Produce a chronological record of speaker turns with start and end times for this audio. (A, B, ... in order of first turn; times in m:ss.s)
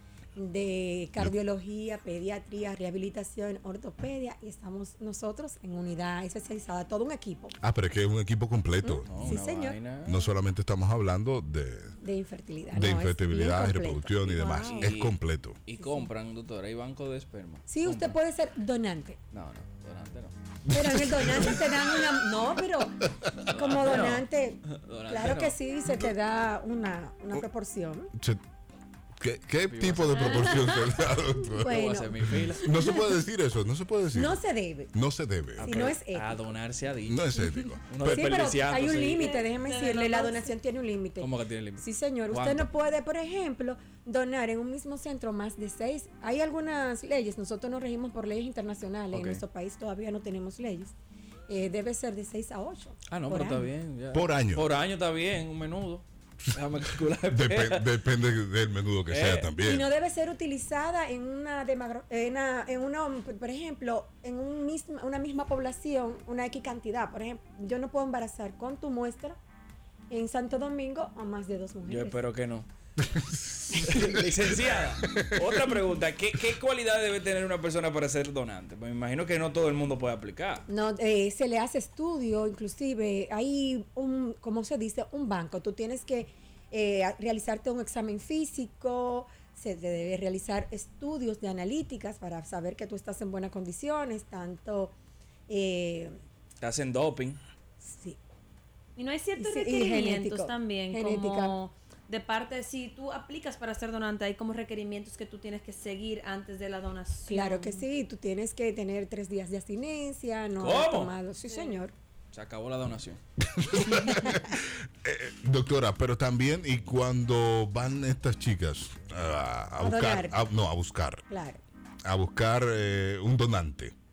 0:00.4-0:07.6 A
0:07.6-0:09.4 B
0:08.8-0:09.8 A
0:09.1-0:10.3 C
0:10.0-0:12.0 B
0:12.0-0:14.9 A
0:12.7-0:15.6 B
0:14.4-0:14.8 D
0:14.6-0:15.2 C
0:15.7-0:18.2 C
0:15.8-0:16.1 A
0:17.7-0:19.2 A
0:19.3-0:20.3 C
0:20.7-0:21.7 B
0:20.7-0:28.1 A
0:23.5-0:25.6 C
0:28.2-0:28.4 B
0:29.2-0:31.8 B
0:29.7-0:30.8 C
0:30.2-0:30.9 D
0:31.5-0:32.7 A
0:31.6-0:32.6 C
0:32.4-0:34.4 B
0:34.1-0:34.9 A
0:34.9-0:35.7 B
0:35.6-0:36.5 A
0:35.6-0:39.4 C
0:37.1-0:38.2 B
0:38.0-0:50.9 A
0:39.3-0:40.5 D
0:41.2-0:42.7 C
0:49.1-0:49.4 C
0:51.5-0:53.7 A
0:53.1-0:57.9 C
0:54.1-0:54.7 B
0:57.3-0:59.9 B
0:59.1-0:59.5 C
0:59.6-1:09.4 A
1:10.1-1:12.2 A
1:11.8-1:12.7 C
1:13.0-1:15.6 B
1:13.7-1:20.6 C
1:20.7-1:35.0 A
1:35.5-1:36.2 A
1:36.6-1:37.4 C
1:37.8-1:38.2 A
1:39.0-1:47.8 D
1:39.4-1:41.6 A
1:47.3-1:51.9 A
1:50.6-1:51.2 C
1:52.3-1:53.2 C
1:53.4-2:01.3 B
1:59.8-2:00.4 A
2:01.3-2:01.6 A
2:02.0-2:04.0 B